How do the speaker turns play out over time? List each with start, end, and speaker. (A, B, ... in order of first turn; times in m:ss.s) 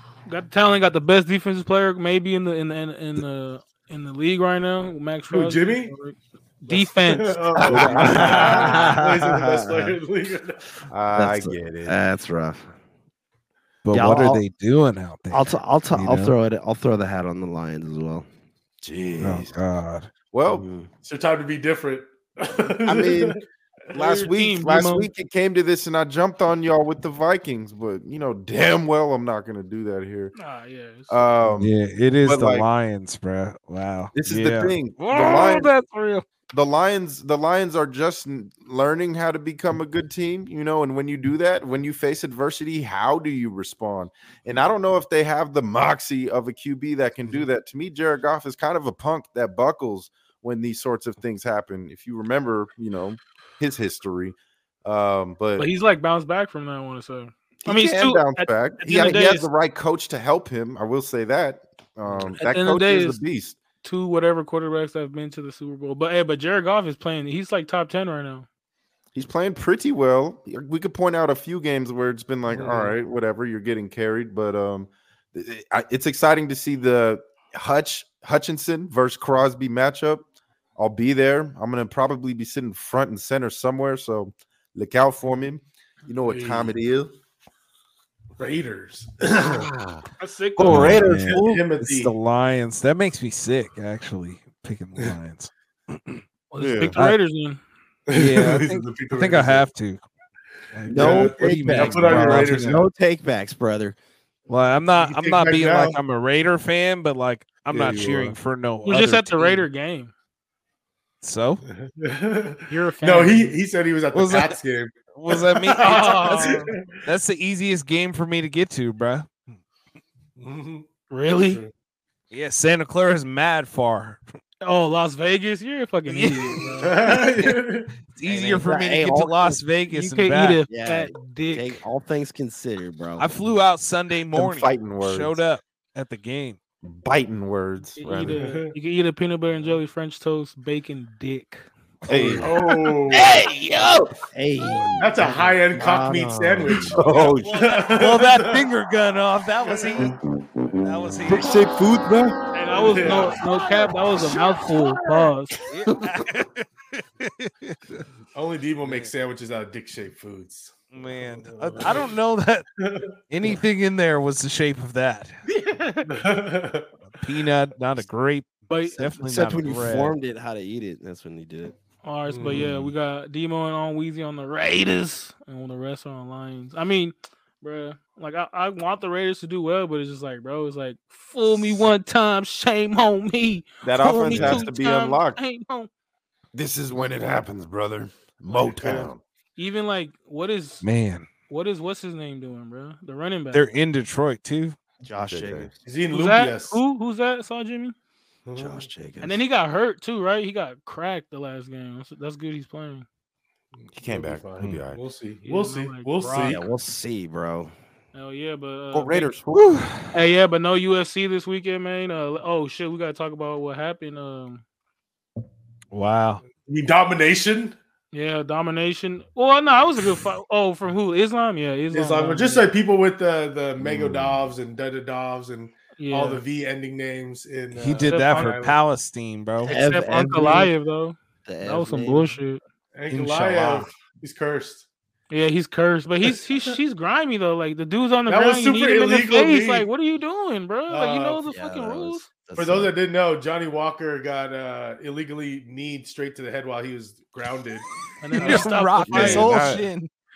0:00.3-0:07.4 A
0:05.3-0:05.9 B
0:06.7-0:10.6 B
0:07.6-0:08.8 C
0:07.7-0:10.0 D
0:10.9-0:12.0 C
0:11.1-0:12.7 D
0:13.8-0:16.3 E
0:13.9-0:14.4 D
0:15.3-0:18.2 D
0:18.8-0:19.5 C
0:19.2-0:20.1 E
0:20.3-0:20.6 C
0:20.4-0:20.9 D
0:21.0-0:23.4 B
0:22.8-0:23.4 C
0:23.9-0:25.1 A
0:23.9-0:30.3 C
0:30.3-0:31.2 A
0:31.1-0:31.7 C
0:31.6-0:36.0 E
0:32.2-0:32.7 C
0:34.1-0:35.7 C
0:35.1-0:36.2 A
0:36.5-0:55.7 C
0:55.6-0:59.5 A
0:57.6-1:03.6 C
1:02.1-1:02.3 B
1:02.4-1:03.2 A
1:03.8-1:08.4 A
1:09.1-1:20.2 C
1:12.5-1:12.9 B
1:20.8-1:27.1 C
1:26.2-1:26.7 B
1:28.4-1:29.7 B
1:29.4-1:30.0 C
1:30.2-1:31.0 A
1:30.6-1:31.6 C
1:30.7-1:36.2 E
1:30.9-1:32.1 B
1:36.5-1:37.6 A
1:36.6-1:37.0 C
1:38.1-1:39.7 B
1:38.1-1:40.0 E
1:40.7-1:42.8 E
1:40.9-1:44.0 D
1:40.9-1:41.2 C
1:40.9-1:42.8 B
1:44.5-1:49.6 E
1:44.9-1:46.0 B
1:47.7-1:48.4 C
1:48.8-1:50.1 A
1:51.2-1:51.6 E
1:51.6-1:57.0 B
1:52.7-1:53.6 A
1:54.1-1:54.6 E
1:55.1-1:59.4 E
1:55.8-1:56.7 A
2:00.4-2:00.9 B
2:01.1-2:01.6 A
2:01.4-2:01.7 B
2:02.3-2:04.2 E
2:04.6-2:07.0 A
2:06.1-2:07.5 E
2:06.7-2:07.9 B
2:08.1-2:10.6 E
2:08.2-2:09.6 D
2:09.9-2:11.8 A
2:10.7-2:13.3 D
2:13.2-2:16.6 E
2:14.3-2:15.4 C
2:16.8-2:18.4 C
2:18.0-2:21.7 A
2:18.3-2:18.7 B
2:22.0-2:22.5 E
2:22.1-2:23.1 C
2:22.4-2:23.4 B
2:23.1-2:24.1 E
2:24.3-2:26.9 D
2:24.8-2:28.7 B
2:26.6-2:27.6 C
2:27.0-2:30.2 E
2:29.7-2:30.0 B
2:30.8-2:31.5 E
2:31.3-2:32.4 C
2:32.5-2:35.6 A
2:32.7-2:33.4 B
2:33.1-2:33.3 C
2:35.7-2:38.0 E
2:38.3-2:42.1 B
2:38.8-2:39.1 E
2:40.9-2:42.7 E
2:42.8-2:43.1 B
2:43.3-2:45.4 E
2:45.5-2:46.1 A
2:46.0-2:46.9 B
2:47.1-2:50.1 E
2:48.7-2:49.0 A
2:49.0-2:51.7 D
2:52.0-3:05.9 A
2:52.3-2:52.7 B
2:52.5-2:52.9 E
3:03.8-3:05.4 C
3:04.3-3:04.6 E
3:06.5-3:09.2 C
3:08.5-3:09.1 B
3:09.6-3:10.8 A
3:10.8-3:11.3 E
3:11.5-3:13.6 A
3:13.5-3:14.8 E
3:15.0-3:15.7 D
3:15.2-3:15.7 C
3:15.8-3:16.8 B
3:16.1-3:17.9 A
3:18.4-3:18.9 B
3:18.6-3:19.4 D
3:19.2-3:23.0 A
3:23.8-3:26.6 B
3:23.9-3:25.0 C
3:25.4-3:26.6 A
3:26.3-3:27.7 D
3:28.1-3:29.3 A
3:28.9-3:29.7 C
3:29.5-3:30.1 E
3:30.1-3:34.6 A
3:35.9-3:36.4 E
3:36.6-3:37.8 B
3:38.1-3:42.7 A
3:41.9-3:48.8 B
3:43.8-3:44.4 C
3:46.0-3:46.4 A
3:47.7-3:49.7 E
3:48.0-3:48.6 A
3:49.6-3:50.7 D
3:49.6-3:52.6 A
3:51.4-3:52.3 D
3:52.9-3:54.9 B
3:53.1-3:53.8 E
3:55.3-4:02.3 A
3:58.3-3:59.9 B
4:00.9-4:01.4 B
4:01.5-4:02.9 D
4:02.5-4:09.9 B
4:08.2-4:09.6 A
4:08.4-4:10.1 E